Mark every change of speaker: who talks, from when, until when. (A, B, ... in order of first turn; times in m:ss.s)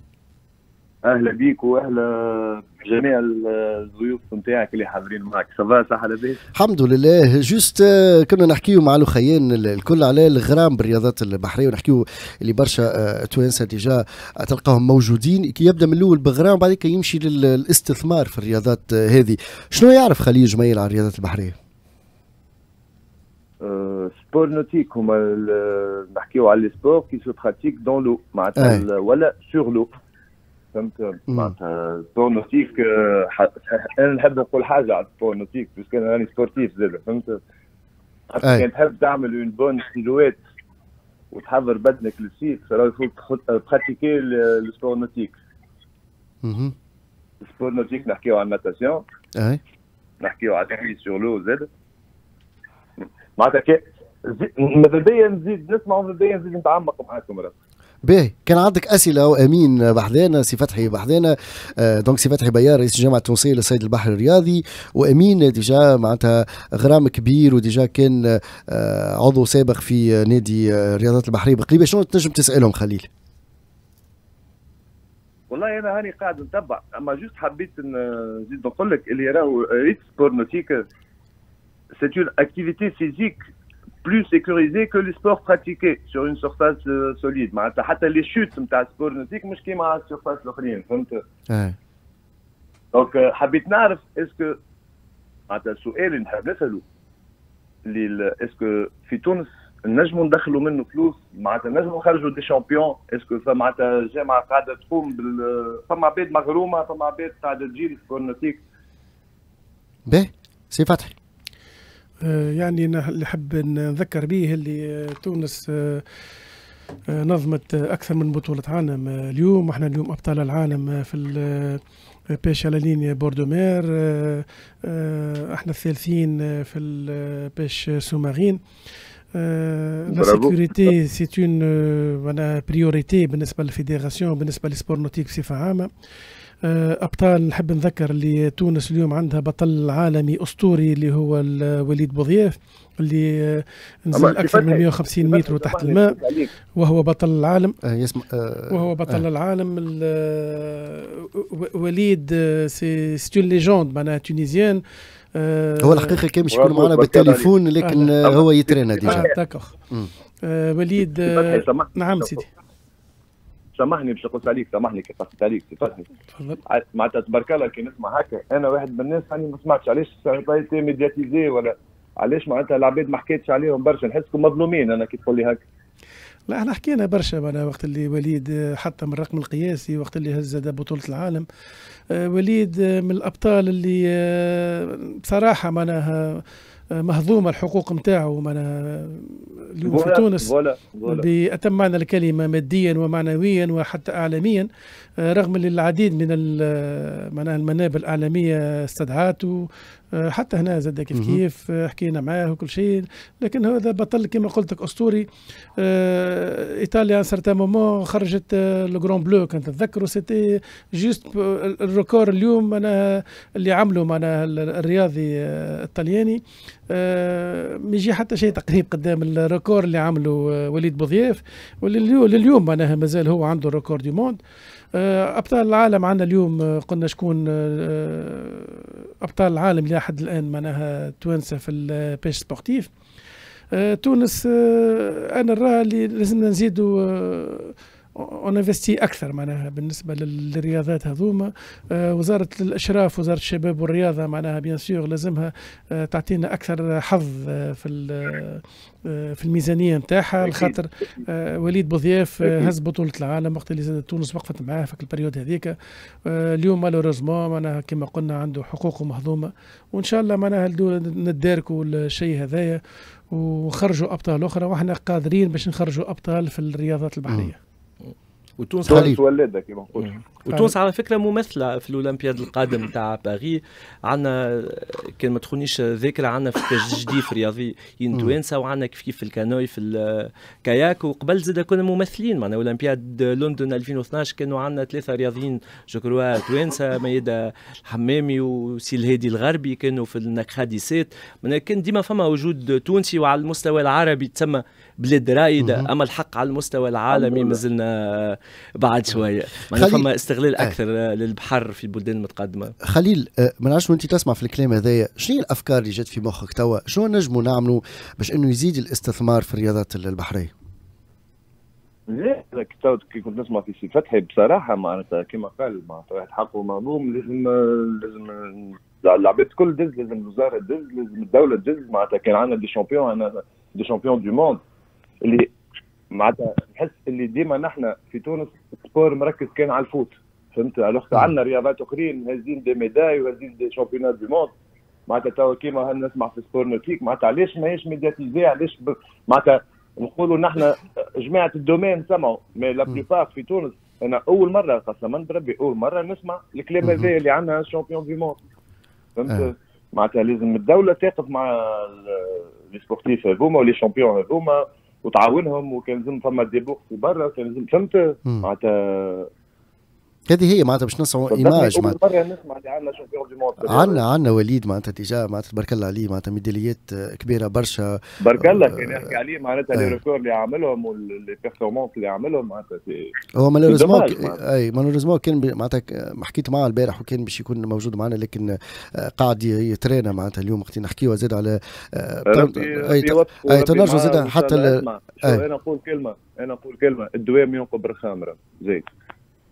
0:01.0-0:06.4 A
0:06.6-0:21.6 B
0:23.6-0:29.9 A
0:28.6-0:28.8 B
0:30.7-0:37.4 A
0:38.3-0:40.4 A
0:41.3-0:45.3 A
0:46.4-0:46.7 B
0:47.4-0:49.0 A
0:50.2-0:51.7 A
0:53.0-0:57.5 A
0:58.0-1:13.1 B
1:15.5-1:20.8 A
1:22.0-1:23.4 A
1:24.0-1:31.2 A
1:31.5-1:31.8 B
1:32.9-1:34.6 A
1:35.5-1:36.8 A
1:37.8-1:48.6 A
1:50.1-1:51.2 B
1:52.2-1:56.0 C
1:57.1-2:01.8 C
2:02.4-2:08.6 C
2:09.4-2:15.9 C
2:10.1-2:10.9 A
2:16.6-2:26.2 C
2:24.1-2:26.5 A
2:26.8-2:27.8 C
2:27.8-2:29.2 B
2:28.7-2:34.8 C
2:35.4-2:36.2 C
2:35.8-2:39.3 B
2:36.5-2:37.5 A
2:37.8-2:38.2 C
2:38.2-2:39.4 A
2:39.0-2:39.7 C
2:40.4-2:42.5 C
2:41.3-2:42.4 A
2:43.8-2:46.1 A
2:46.7-2:55.6 A
2:56.5-3:01.5 C
3:02.2-3:06.4 C
3:07.0-3:10.5 C
3:09.8-3:11.3 A
3:11.1-3:14.7 C
3:15.2-3:25.2 C
3:21.1-3:21.4 B
3:25.8-3:36.4 C
3:36.9-3:44.4 C
3:45.0-3:52.9 C
3:53.7-4:15.8 C
4:10.4-4:11.2 A
4:12.4-4:12.7 A
4:16.3-4:22.8 C
4:23.3-4:27.6 C
4:27.3-4:27.5 B
4:28.1-4:29.1 D
4:28.9-4:29.2 B
4:28.9-4:30.2 A
4:30.0-5:02.7 D
4:55.6-4:55.9 B
4:57.1-4:57.6 A
4:59.7-5:00.1 B
5:02.8-5:10.5 B
5:12.1-5:24.6 A
5:25.2-5:25.5 A
5:26.1-5:34.5 A
5:35.1-5:48.4 A
5:46.8-5:47.1 B
5:49.2-5:59.3 A
6:00.3-6:02.0 B
6:01.3-6:04.0 A
6:03.7-6:09.1 B
6:08.2-6:13.1 A
6:13.4-6:25.4 B
6:13.7-6:14.4 A
6:22.3-6:28.9 A